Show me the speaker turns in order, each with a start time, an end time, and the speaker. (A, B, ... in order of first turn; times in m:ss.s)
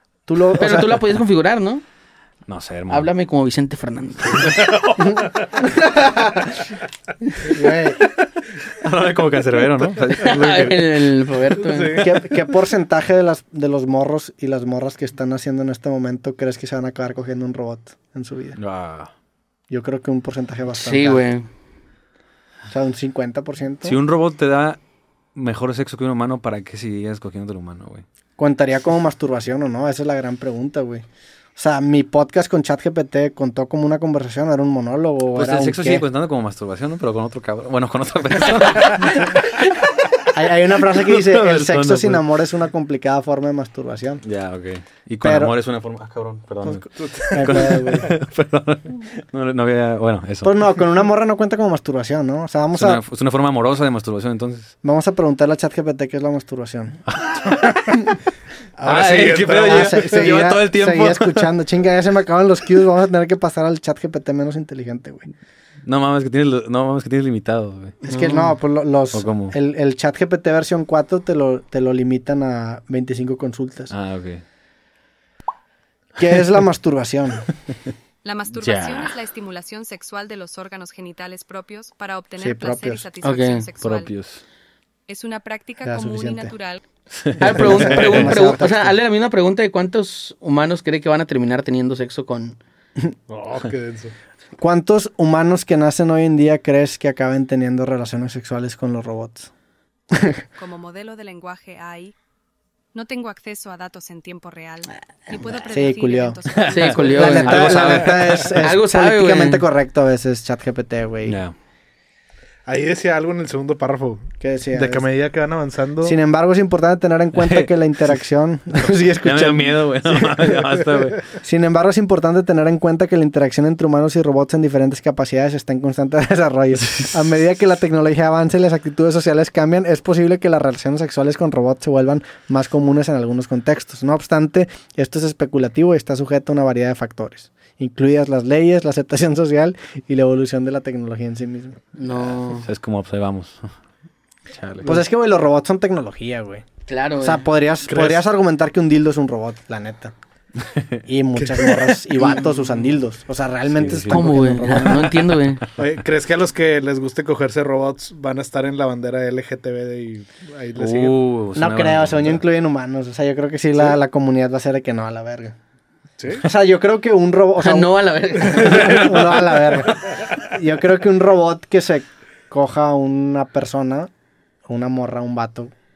0:00.3-0:01.0 A
0:00.6-0:01.8 B
0:02.5-0:03.1 C
0:02.9-0:04.6 B
0:04.5-0:05.8 D
0:05.6-0:06.5 A
0:07.4-0:08.0 A
0:08.7-0:11.0 C
0:10.2-0:12.0 B
0:11.6-0:12.4 D
0:12.0-0:18.6 A
0:18.6-0:19.1 C
0:19.7-0:21.2 A
0:20.8-0:21.5 B
0:22.7-0:24.0 A
0:23.8-0:24.8 C
0:25.4-0:28.0 C
0:28.4-0:31.0 A
0:31.6-0:36.0 A
0:35.3-0:39.6 C
0:40.3-0:44.2 A
0:41.1-0:42.3 C
0:44.2-0:50.6 C
0:45.2-0:45.5 A
0:47.0-0:47.9 D
0:47.3-0:48.1 A
0:50.4-0:53.0 A
0:52.8-0:54.7 C
0:54.8-0:57.0 A
0:57.1-0:58.0 C
0:57.6-0:58.2 A
0:58.8-1:00.1 D
0:58.8-1:01.5 C
0:59.6-1:05.3 A
1:05.8-1:08.0 C
1:08.0-1:08.5 B
1:08.1-1:13.9 A
1:09.1-1:09.5 C
1:13.9-1:14.4 C
1:16.2-1:17.5 A
1:18.2-1:24.1 E
1:18.5-1:19.2 C
1:22.4-1:23.0 A
1:23.2-1:23.7 B
1:23.8-1:24.4 C
1:25.1-1:26.8 E
1:25.8-1:26.5 A
1:27.1-1:28.2 C
1:27.4-1:32.6 B
1:27.5-1:29.0 A
1:33.3-1:34.1 D
1:34.6-1:39.5 A
1:40.1-1:40.4 A
1:40.6-1:42.1 E
1:42.9-1:47.4 E
1:45.7-1:46.4 A
1:46.6-1:48.6 C
1:46.7-1:49.6 B
1:47.1-1:51.4 A
1:47.6-1:47.9 D
1:51.2-1:51.5 C
1:52.7-1:56.2 D
1:54.4-1:55.1 A
1:56.0-2:00.6 A
1:57.4-1:57.7 C
1:58.8-2:01.3 C
2:01.3-2:21.8 A
2:22.0-2:22.7 B
2:22.5-2:23.6 C
2:24.5-2:25.0 C
2:24.8-2:26.6 A
2:26.9-2:27.4 B
2:27.2-2:30.1 A
2:27.9-2:28.2 D
2:31.1-2:35.1 A
2:31.4-2:31.9 D
2:33.7-2:34.3 C
2:34.1-2:35.6 B
2:35.8-2:41.2 D
2:40.8-2:42.4 C
2:41.5-2:45.5 A
2:46.4-2:54.1 A
2:47.6-2:49.0 B
2:54.7-2:55.7 A